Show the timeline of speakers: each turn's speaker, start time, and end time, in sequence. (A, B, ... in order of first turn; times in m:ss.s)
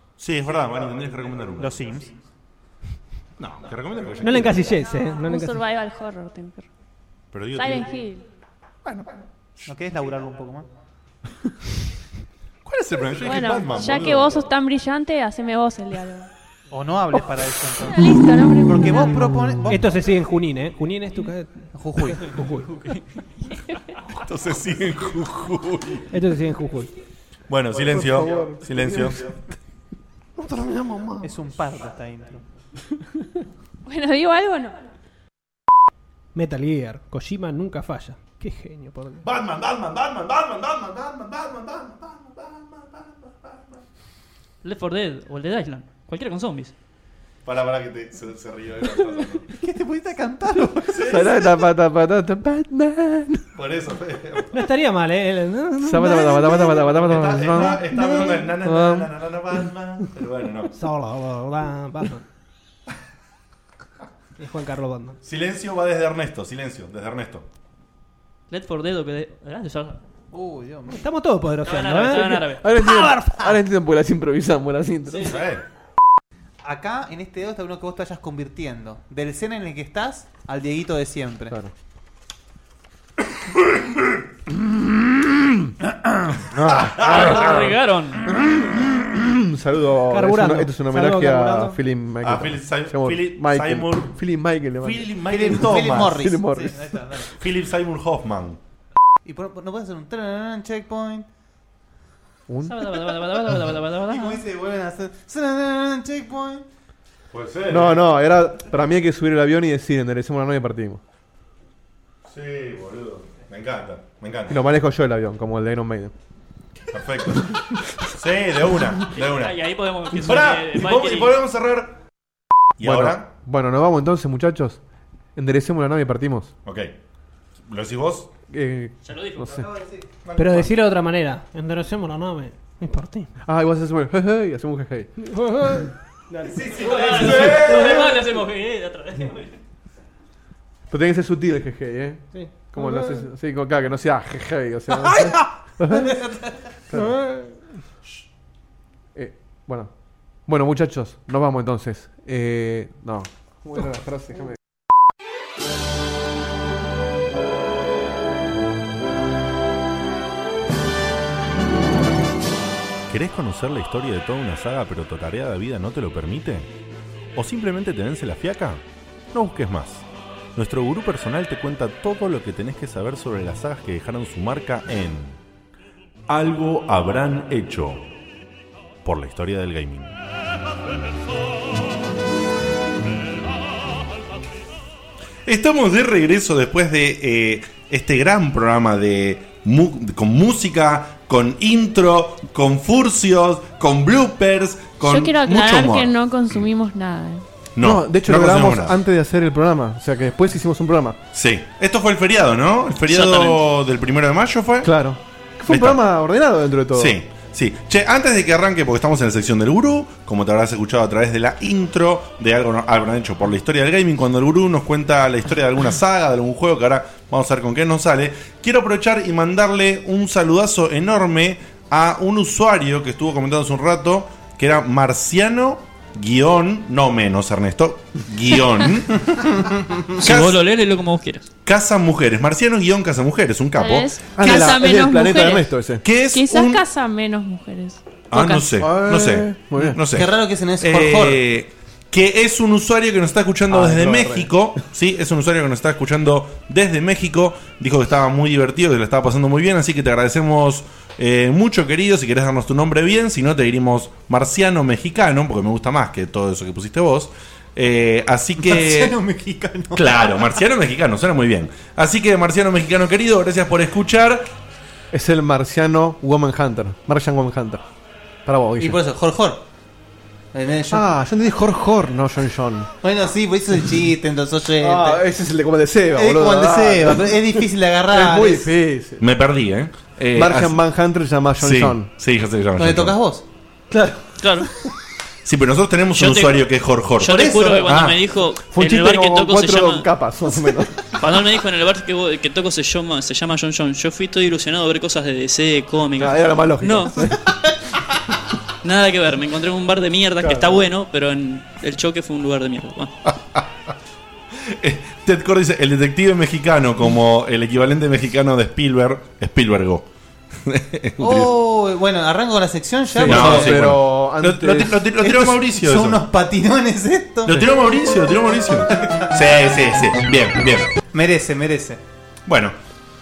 0:00.2-0:01.8 A
0:01.6-0:02.1 B
0:03.4-0:04.7 A
0:04.2-0:05.6 C
0:05.2-0:06.7 D
0:07.3-0:08.0 A
0:07.5-0:08.2 D
0:08.8-0:09.2 A
0:09.6-0:10.7 B
0:12.6-0:14.5 A
0:13.2-0:16.3 D
0:16.7-0:18.1 B
0:17.9-0:19.3 D
0:18.6-0:19.9 B
0:19.7-0:22.7 C
0:21.7-0:22.3 B
0:24.1-0:26.0 A
0:26.1-0:26.9 C
0:27.5-0:29.3 A
0:27.7-0:29.2 E
0:30.4-0:31.2 E
0:31.2-0:32.4 B
0:33.8-0:34.8 D
0:36.3-0:39.2 C
0:39.2-0:43.6 A
0:44.6-0:46.7 F
0:47.4-0:49.5 A
0:49.6-0:51.2 B
0:50.9-0:51.4 A
0:51.0-0:53.4 E
0:53.5-0:54.6 A
0:54.5-0:56.7 C
0:55.8-0:59.1 E
0:56.9-1:00.7 A
1:00.8-1:02.2 C
1:04.4-1:05.2 C
1:05.2-1:07.4 A
1:08.5-1:10.0 F
1:10.3-1:11.0 B
1:10.9-1:13.3 C
1:11.6-1:12.6 F
1:12.4-1:15.4 E
1:15.2-1:15.6 A
1:16.6-1:21.5 B
1:26.5-1:27.6 E
1:26.6-1:27.5 A
1:26.9-1:28.2 F
1:28.5-1:36.8 E
1:30.1-1:31.8 C
1:32.2-1:34.1 A
1:34.8-1:36.2 A
1:35.3-1:37.3 B
1:37.3-1:38.6 A
1:39.2-1:41.3 B
1:42.5-1:42.9 E
1:42.6-1:44.4 F
1:43.9-1:46.6 B
1:47.3-1:48.0 A
1:47.7-1:51.0 E
1:52.2-1:54.6 A
1:54.5-1:56.1 E
1:56.9-1:57.5 A
1:58.1-1:59.6 A
1:59.1-2:01.4 F
2:00.1-2:02.0 A
2:02.8-2:03.2 A
2:02.8-2:04.8 E
2:05.4-2:06.5 E
2:06.6-2:06.9 A
2:07.7-2:08.3 A
2:08.5-2:09.7 E
2:09.0-2:09.7 F
2:10.2-2:10.6 A
2:10.4-2:13.3 C
2:13.4-2:15.1 E
2:15.3-2:18.1 C
2:16.6-2:17.8 A
2:16.8-2:19.5 F
2:20.9-2:26.2 E
2:22.3-2:23.2 C
2:25.9-2:26.5 B
2:26.9-2:27.2 E
2:26.9-2:27.5 C
2:29.1-2:29.9 E
2:30.5-2:34.5 E
2:43.1-2:46.7 A
2:47.3-2:50.0 A
2:50.6-2:55.4 A
2:56.3-2:58.1 A
2:59.0-3:00.1 A
3:05.4-3:16.1 A
3:15.0-3:17.4 D
3:17.8-3:19.0 A
3:17.8-3:21.2 E
3:21.3-3:24.9 A
3:23.1-3:23.6 F
3:24.8-3:27.2 E
3:25.7-3:26.0 A
3:26.9-3:49.2 A
3:49.3-3:49.9 B
3:50.1-3:51.5 F
3:50.2-3:50.6 A
3:51.6-3:54.8 A
3:53.8-3:55.7 D
3:54.3-3:56.0 E
3:56.0-3:56.8 A
3:56.3-3:58.7 D
3:58.3-4:19.2 A
3:58.8-4:00.0 E
4:00.1-4:01.4 B
4:03.7-4:04.5 E
4:18.6-4:20.5 B
4:19.9-4:24.5 A
4:25.1-4:27.8 E
4:28.4-4:29.0 E
4:28.8-4:29.6 B
4:30.5-4:31.0 B
4:30.9-4:32.9 E
4:33.0-4:35.2 B
4:34.8-4:39.2 E
4:36.1-4:38.7 B
4:39.2-4:40.8 A
4:40.3-4:42.1 E
4:41.6-4:43.1 A
4:42.8-4:43.4 B
4:43.9-4:44.6 E
4:44.4-4:44.7 F
4:45.4-4:48.2 A
4:46.2-4:46.6 F
4:47.2-4:50.1 F
4:47.2-4:47.9 B
4:48.7-4:51.0 E
4:51.1-4:57.3 F
4:56.2-4:57.5 E
4:58.8-5:03.1 F
5:00.4-5:00.9 E
5:03.3-5:03.9 A
5:04.6-5:10.0 A
5:10.6-5:11.5 A
5:11.2-5:13.8 B
5:13.1-5:15.1 E
5:13.2-5:16.2 A
5:15.2-5:17.6 B
5:17.4-5:20.9 A
5:21.1-5:22.0 B
5:22.4-5:22.7 A